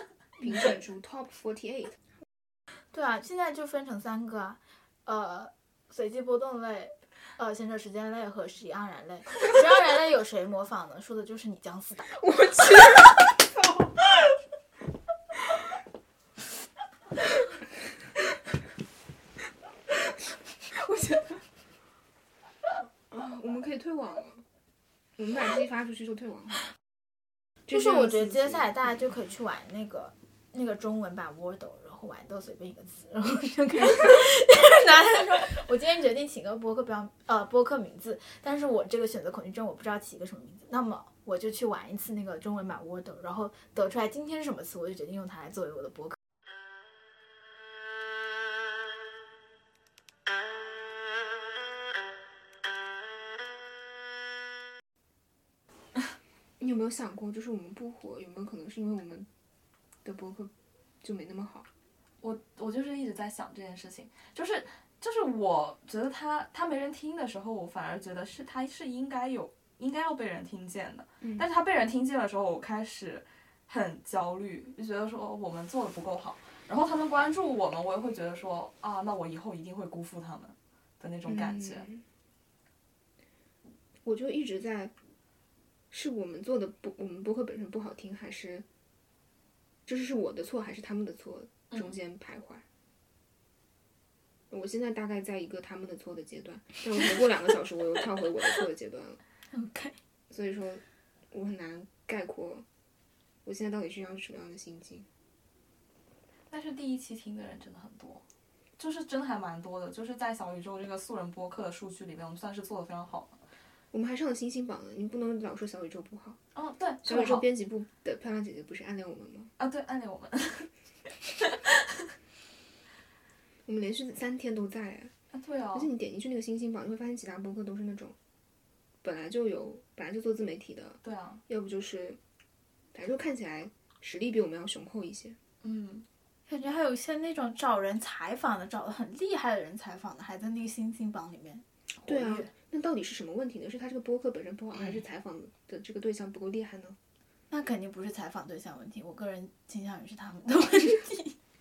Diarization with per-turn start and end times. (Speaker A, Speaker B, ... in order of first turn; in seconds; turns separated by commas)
Speaker A: 0.4-2.0, Speaker B: 2.9-12.2, Speaker A: 12.1-13.2, Speaker A: 20.7-21.4, Speaker A: 23.1-24.4, Speaker A: 25.2-26.7, Speaker A: 27.7-28.7, Speaker B: 27.7-46.2, Speaker A: 56.6-59.3, Speaker A: 60.0-61.7, Speaker C: 62.2-81.9, Speaker A: 71.2-71.5, Speaker A: 81.3-82.0, Speaker A: 84.0-84.9, Speaker A: 85.9-88.7, Speaker A: 89.9-92.7, Speaker A: 94.5-99.2, Speaker B: 99.5-100.0, Speaker A: 100.3-102.7, Speaker A: 103.5-105.1, Speaker C: 106.5-108.2, Speaker C: 108.8-113.4, Speaker A: 113.9-116.4, Speaker C: 116.5-117.5, Speaker A: 117.0-119.5, Speaker C: 119.6-122.0, Speaker A: 123.7-125.1, Speaker C: 125.3-125.9, Speaker A: 125.7-128.2, Speaker A: 129.0-132.2, Speaker C: 131.0-131.4, Speaker A: 132.9-135.4, Speaker C: 135.6-136.1, Speaker B: 136.5-142.5, Speaker A: 142.1-147.0, Speaker B: 147.5-151.4